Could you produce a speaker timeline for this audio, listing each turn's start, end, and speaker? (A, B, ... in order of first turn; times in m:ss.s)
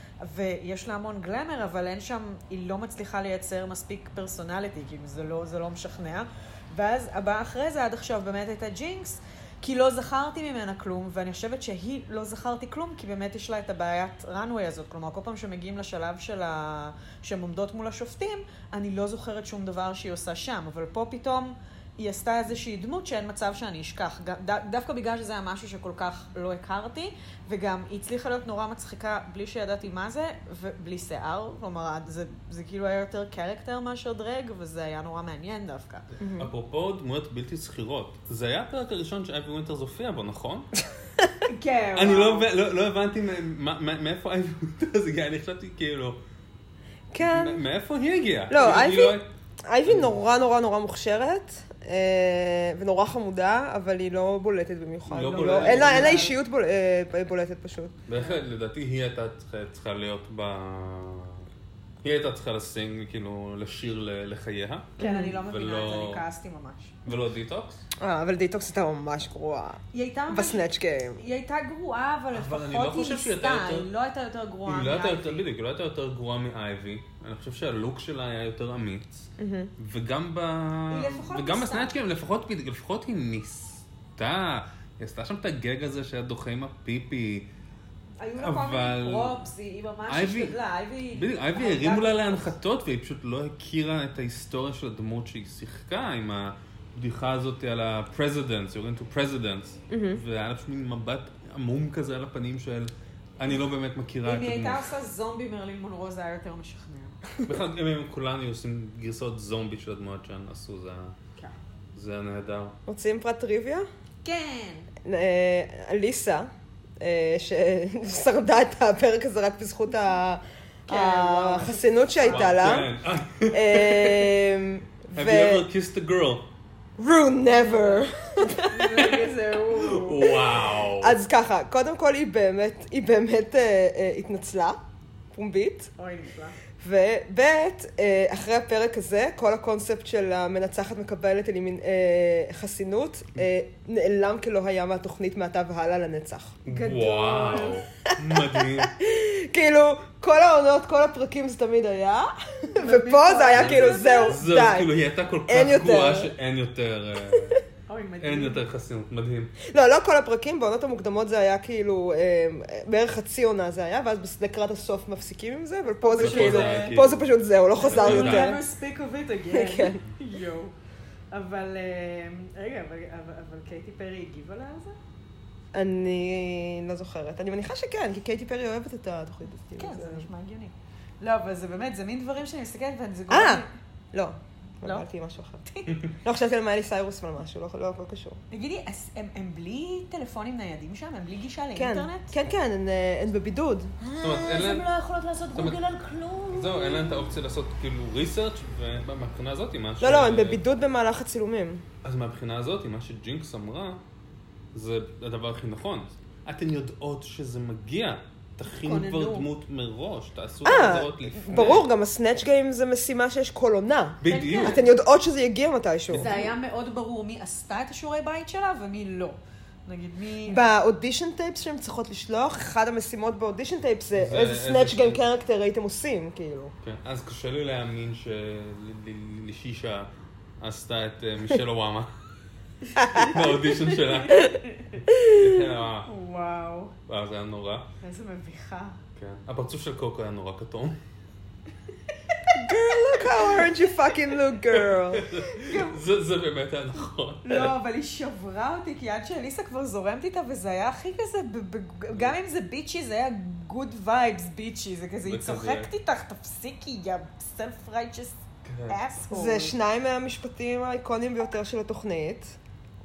0:00.2-0:36.1 A
0:36.2-0:36.5 B
0:36.4-0:40.8 C
0:41.5-0:42.5 A
0:42.0-0:46.2 C
0:47.1-0:47.6 B
0:47.2-0:49.3 C
0:48.5-0:57.9 B
0:49.9-0:50.2 C
0:55.1-0:56.3 C
0:55.4-0:56.3 A
0:58.1-1:01.5 C
1:02.0-1:06.2 C
1:05.0-1:05.4 B
1:05.0-1:07.0 A
1:07.1-1:07.8 C
1:08.0-1:11.2 B
1:09.9-1:10.7 A
1:11.2-1:15.5 A
1:12.3-1:13.9 C
1:14.7-1:19.2 C
1:19.4-1:19.7 B
1:19.8-1:27.5 C
1:20.9-1:22.0 A
1:28.2-1:32.6 A
1:28.4-1:29.5 C
1:30.1-1:30.6 C
1:31.1-1:45.0 C
1:39.9-1:40.2 B
1:44.2-1:47.2 A
1:47.4-1:51.2 C
1:52.0-1:52.8 C
1:52.9-1:53.9 B
1:54.2-1:54.9 A
1:55.0-2:02.9 B
2:00.9-2:02.6 A
2:02.2-2:04.3 C
2:03.5-2:05.7 B
2:05.2-2:06.5 C
2:07.0-2:09.2 B
2:07.5-2:10.3 A
2:09.8-2:11.2 C
2:11.0-2:14.8 B
2:15.3-2:15.9 B
2:16.0-2:16.6 A
2:16.8-2:26.6 B
2:26.7-2:28.9 C
2:26.7-2:27.8 A
2:28.6-2:34.9 B
2:32.8-2:34.4 A
2:33.6-2:37.6 C
2:35.5-2:36.3 B
2:37.9-2:38.6 A
2:38.2-2:39.6 C
2:39.7-2:48.6 B
2:46.0-2:47.0 A
2:46.2-2:47.3 C
2:47.8-2:50.7 A
2:47.8-2:48.6 C
2:49.5-2:50.0 B
2:51.3-2:55.0 A
2:55.7-3:00.3 B
2:59.8-3:03.7 A
3:03.3-3:05.6 B
3:05.6-3:06.0 A
3:06.2-3:08.4 B
3:08.5-3:12.3 A
3:11.8-3:14.0 B
3:14.0-3:17.3 A
3:14.2-3:14.9 C
3:15.5-3:15.8 C
3:16.5-3:20.6 C
3:20.0-3:21.8 B
3:22.0-3:24.0 C
3:24.7-3:31.9 C
3:28.8-3:29.5 A
3:30.6-3:36.4 B
3:34.2-3:34.8 C
3:34.3-3:34.8 A
3:36.1-3:36.5 C
3:36.1-3:40.6 A
3:40.5-3:46.7 B
3:44.1-3:45.2 C
3:46.8-3:52.1 C
3:53.0-3:53.3 B
3:53.2-3:56.1 C
3:53.4-3:55.0 A
3:55.1-3:55.4 B
3:56.1-3:57.0 A
3:57.1-3:57.9 C
3:58.0-3:59.0 A
3:59.2-4:01.0 C
4:02.1-4:02.6 A
4:02.6-4:05.3 B
4:04.7-4:07.8 C
4:05.5-4:06.0 A
4:07.4-4:19.8 A
4:12.1-4:12.4 C
4:15.2-4:15.9 C
4:18.6-4:19.0 C
4:19.3-4:22.6 B